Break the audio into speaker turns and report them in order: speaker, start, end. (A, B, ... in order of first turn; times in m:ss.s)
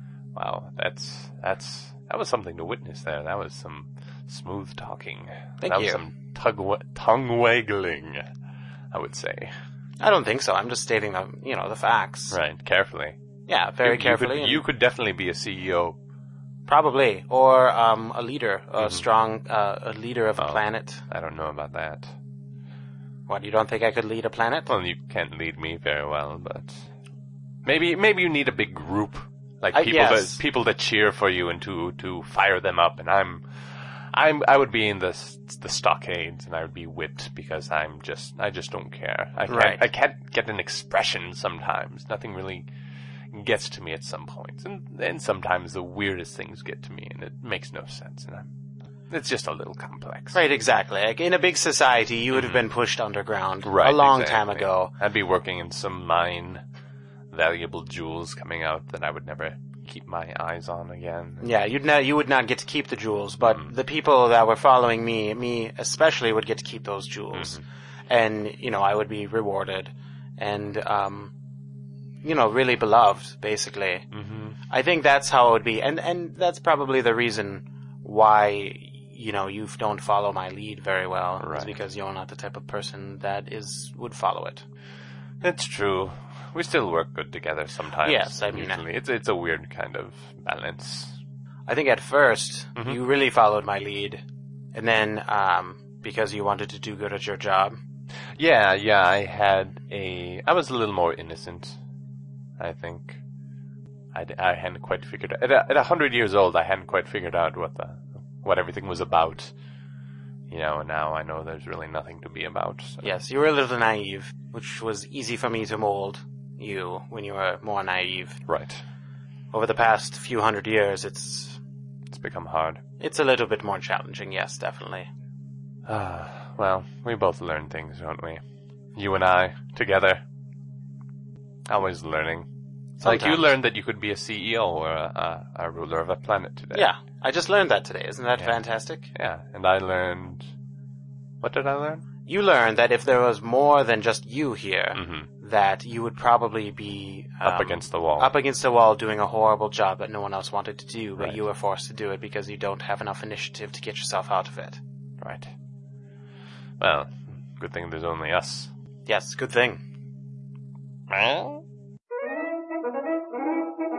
0:00.4-0:08.3 A
0:05.6-0:06.1 B
0:08.9-0:09.5 A
0:10.0-0:12.4 B
0:12.3-0:13.2 A
0:13.5-0:14.6 B
0:13.8-0:16.0 A
0:16.7-0:21.0 B
0:18.8-0:19.1 A
0:20.4-0:22.1 A
0:23.3-0:24.7 B
0:24.7-0:26.8 A
0:27.6-0:33.4 A
0:29.7-0:30.4 B
0:34.1-0:42.7 A
0:39.5-0:39.8 B
0:43.3-0:48.5 A
0:49.1-0:50.4 A
0:50.3-0:54.9 B
0:52.3-0:52.6 A
0:53.6-0:56.6 A
0:57.3-1:01.5 A
1:01.4-1:11.4 B
1:07.3-1:07.6 A
1:12.2-1:14.1 B
1:14.1-1:14.6 A
1:14.7-1:24.7 B
1:21.4-1:21.8 A
1:25.4-1:31.2 A
1:28.0-1:28.8 B
1:31.7-1:34.2 B
1:34.7-1:37.8 B
1:38.4-1:41.8 A
1:42.6-1:43.2 A
1:44.1-1:49.5 A
1:50.5-1:53.1 A
1:53.0-1:58.4 B
1:58.5-1:58.8 A
1:59.5-2:01.6 B
2:02.1-2:02.8 A
2:03.0-2:05.1 B
2:05.9-2:08.4 A
2:09.0-2:10.2 A
2:11.7-2:12.5 A
2:13.0-2:13.5 B
2:13.0-2:16.9 A
2:16.7-2:19.1 B
2:19.1-2:20.5 A
2:21.4-2:22.0 A
2:22.3-2:34.8 B
2:25.0-2:25.3 A
2:27.4-2:28.3 A
2:35.2-2:35.5 A
2:36.8-2:38.7 A
2:39.1-2:39.8 B
2:41.1-2:41.6 A